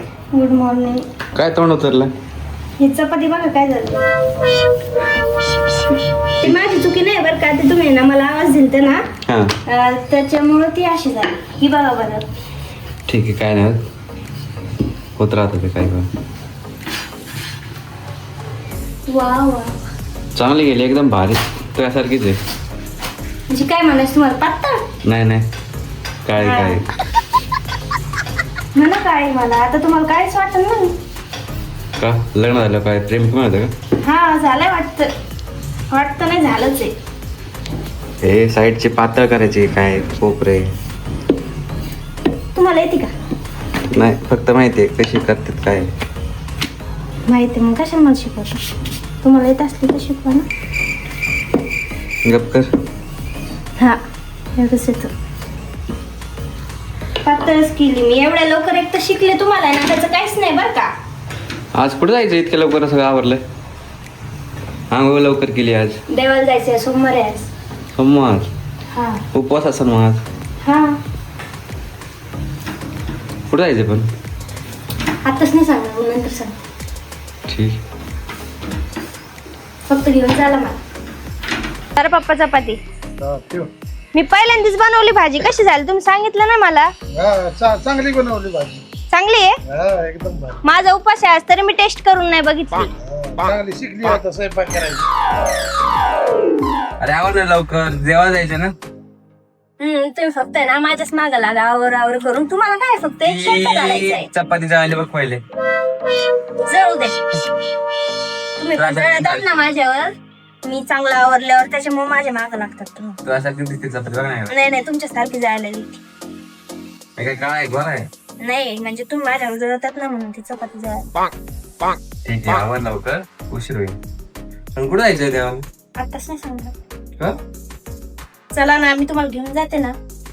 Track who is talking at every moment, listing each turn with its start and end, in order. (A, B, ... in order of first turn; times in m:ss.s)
0:00.3-0:01.0 A
0:01.4-0:02.1 B
0:02.8-0:04.0 A
0:06.4-0:09.0 A
0:09.3-0:09.6 B
0:09.7-0:12.3 A
0:13.1-0:13.8 B
0:15.2-0:16.1 B
0:19.1-0:19.7 A
0:20.4-0:22.4 B
0:23.5-0:24.8 A
0:25.0-0:25.5 B
0:26.3-0:26.9 B
0:26.4-0:26.8 A
0:28.8-0:31.0 A
0:32.0-0:33.7 B
0:34.0-0:35.1 A
0:35.9-0:36.9 A
0:38.2-0:40.7 B
0:42.6-0:43.1 A
0:43.9-0:45.9 B
0:47.3-0:48.6 A
0:49.2-0:50.5 A
0:52.2-0:52.7 B
0:54.6-0:55.1 A
0:57.2-1:00.9 A
1:01.8-1:03.4 B
1:04.9-1:06.0 B
1:06.1-1:07.5 A
1:08.0-1:08.5 B
1:08.9-1:09.2 A
1:09.3-1:10.2 B
1:10.6-1:11.0 A
1:13.5-1:14.1 B
1:15.2-1:16.6 A
1:17.5-1:17.8 B
1:19.9-1:20.8 A
1:22.0-1:22.8 A
1:23.2-1:23.7 C
1:24.1-1:26.9 A
1:27.1-1:28.8 C
1:29.1-1:29.6 A
1:29.7-1:30.6 C
1:30.6-1:32.9 A
1:33.1-1:35.1 C
1:37.0-1:38.8 B
1:39.8-1:44.3 A
1:43.2-1:45.4 B
1:46.6-1:47.2 A
1:48.6-1:53.2 A
1:48.8-1:49.5 B
1:53.2-1:54.6 B
1:54.5-1:56.0 A
1:57.2-1:58.1 B
1:58.4-2:01.1 A
2:02.2-2:04.0 B
2:04.8-2:05.7 B
2:06.0-2:06.7 A
2:08.5-2:10.0 A